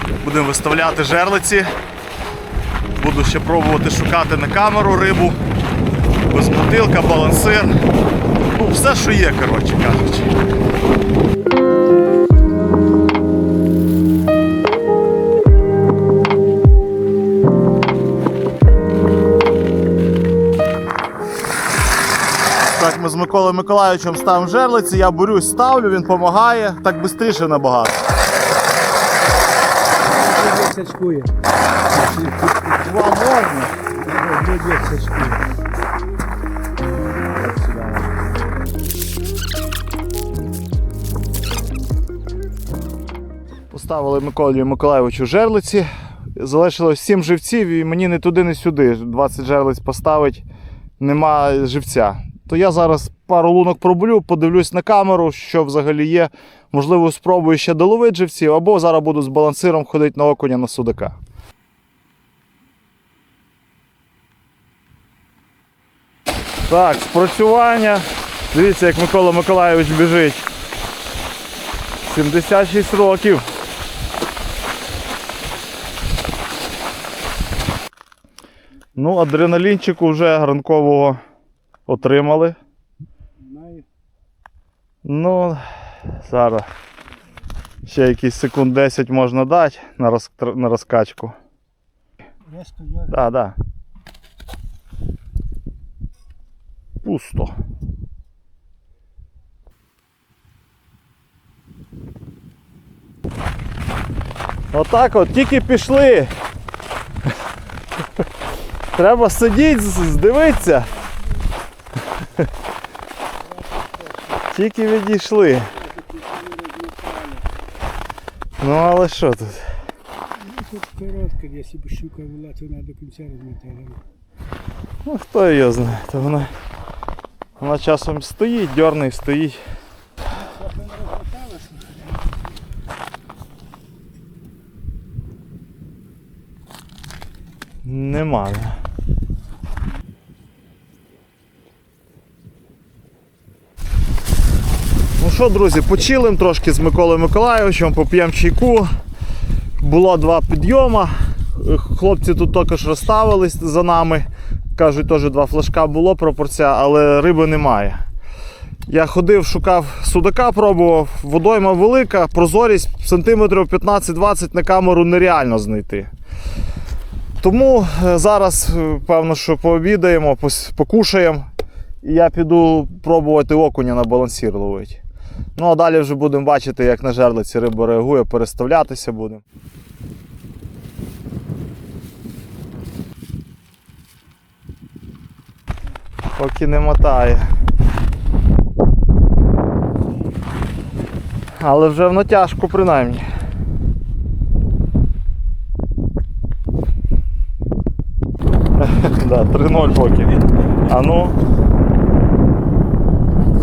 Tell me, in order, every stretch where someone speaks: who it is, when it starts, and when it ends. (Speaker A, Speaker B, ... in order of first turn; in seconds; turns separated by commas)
Speaker A: 0.2-1.7, Speaker A: 3.0-5.4, Speaker A: 6.3-7.8, Speaker A: 8.5-10.3, Speaker A: 22.7-28.0, Speaker B: 30.1-31.3, Speaker B: 32.0-32.6, Speaker A: 32.8-33.8, Speaker B: 34.0-35.5, Speaker A: 37.3-38.2, Speaker A: 43.7-50.5, Speaker A: 51.0-61.2, Speaker A: 66.7-70.5, Speaker A: 72.0-73.4, Speaker A: 79.0-81.2, Speaker A: 81.9-82.6, Speaker B: 83.4-83.8, Speaker A: 85.0-86.7, Speaker A: 87.8-91.3, Speaker B: 92.5-93.2, Speaker A: 93.1-93.6, Speaker A: 97.0-97.5, Speaker A: 104.7-106.3, Speaker A: 108.9-110.9, Speaker B: 113.5-114.4, Speaker A: 114.5-115.7, Speaker B: 115.8-117.5, Speaker A: 118.6-119.7, Speaker B: 120.4-124.0, Speaker A: 125.0-126.5, Speaker A: 127.6-129.6, Speaker B: 130.3-132.2, Speaker A: 137.8-138.8, Speaker A: 145.2-148.9, Speaker A: 149.8-158.0, Speaker A: 158.9-166.1, Speaker A: 167.4-171.5, Speaker A: 172.0-175.0, Speaker A: 175.6-179.4, Speaker A: 186.4-187.5, Speaker A: 191.6-193.2, Speaker A: 198.8-201.4